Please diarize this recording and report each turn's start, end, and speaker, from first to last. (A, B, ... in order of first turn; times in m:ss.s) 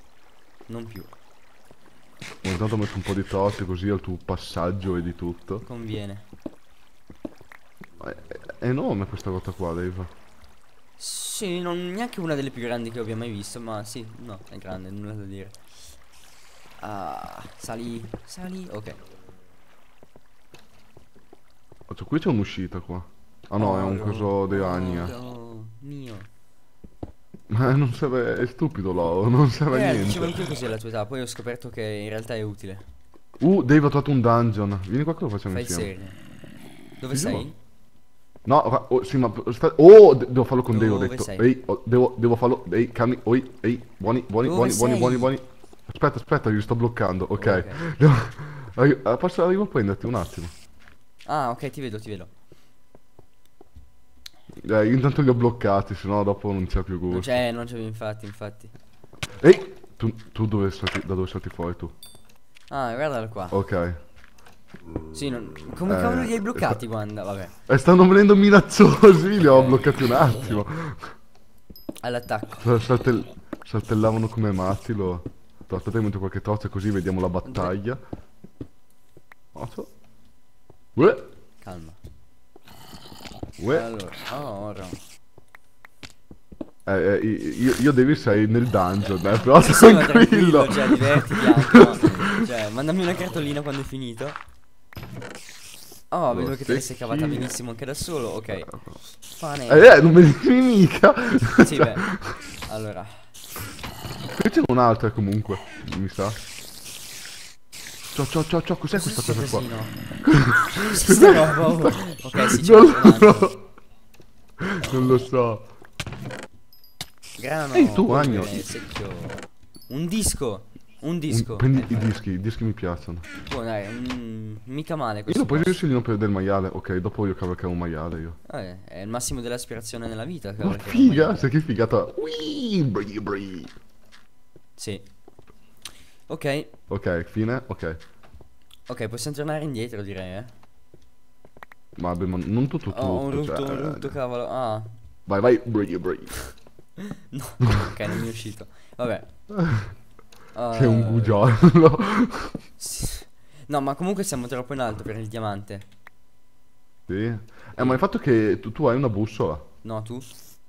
0:00.7-0:01.1 A
0:02.4-0:05.6 B
0:05.6-0:06.2 A
0:08.0-0:10.1 B
0:11.0-0:15.6 A
0:16.8-0:19.0 A
0:21.9-0:25.2 B
0:23.6-0:26.3 A
0:27.5-0:30.5 B
0:29.7-0:32.8 A
0:33.4-0:35.9 B
0:35.5-0:36.2 A
0:37.0-0:37.6 A
0:37.1-0:37.5 B
0:38.5-0:50.5 B
0:40.7-0:41.5 A
0:44.4-0:45.3 A
0:47.4-0:47.8 A
0:51.3-0:52.3 A
0:54.6-0:57.3 B
0:57.1-0:58.7 A
0:59.4-1:01.9 B
1:02.7-1:03.6 A
1:03.5-1:04.0 B
1:05.1-1:07.5 A
1:05.9-1:06.8 B
1:07.7-1:11.1 B
1:09.4-1:10.6 A
1:12.0-1:12.6 A
1:12.6-1:18.0 B
1:17.4-1:17.8 A
1:19.5-1:19.9 B
1:21.0-1:21.3 B
1:21.6-1:22.0 A
1:23.6-1:23.9 B
1:23.7-1:25.0 A
1:26.9-1:32.3 B
1:29.4-1:34.4 A
1:36.1-1:38.7 A
1:36.3-1:37.5 B
1:38.5-1:39.0 B
1:39.2-1:40.1 A
1:39.7-1:42.4 B
1:41.6-1:42.1 A
1:42.6-1:43.3 A
1:44.3-1:46.4 B
1:48.1-1:49.7 B
1:48.9-1:50.0 A
1:50.2-1:53.6 B
1:50.7-1:53.6 A
1:54.6-1:55.6 B
1:57.4-2:02.1 A
1:57.7-1:58.6 B
2:01.3-2:03.2 B
2:03.4-2:05.8 A
2:05.3-2:08.4 B
2:08.4-2:11.5 A
2:10.6-2:13.7 B
2:14.8-2:15.0 A
2:16.3-2:16.7 A
2:16.9-2:18.0 B
2:18.9-2:20.5 A
2:22.0-2:24.2 B
2:22.9-2:24.9 A
2:25.3-2:26.4 B
2:27.3-2:29.3 A
2:29.5-2:29.9 B
2:30.5-2:31.4 A
2:30.7-2:32.6 B
2:32.8-2:35.8 A
2:37.1-2:39.6 B
2:37.8-2:38.0 A
2:39.8-2:40.3 A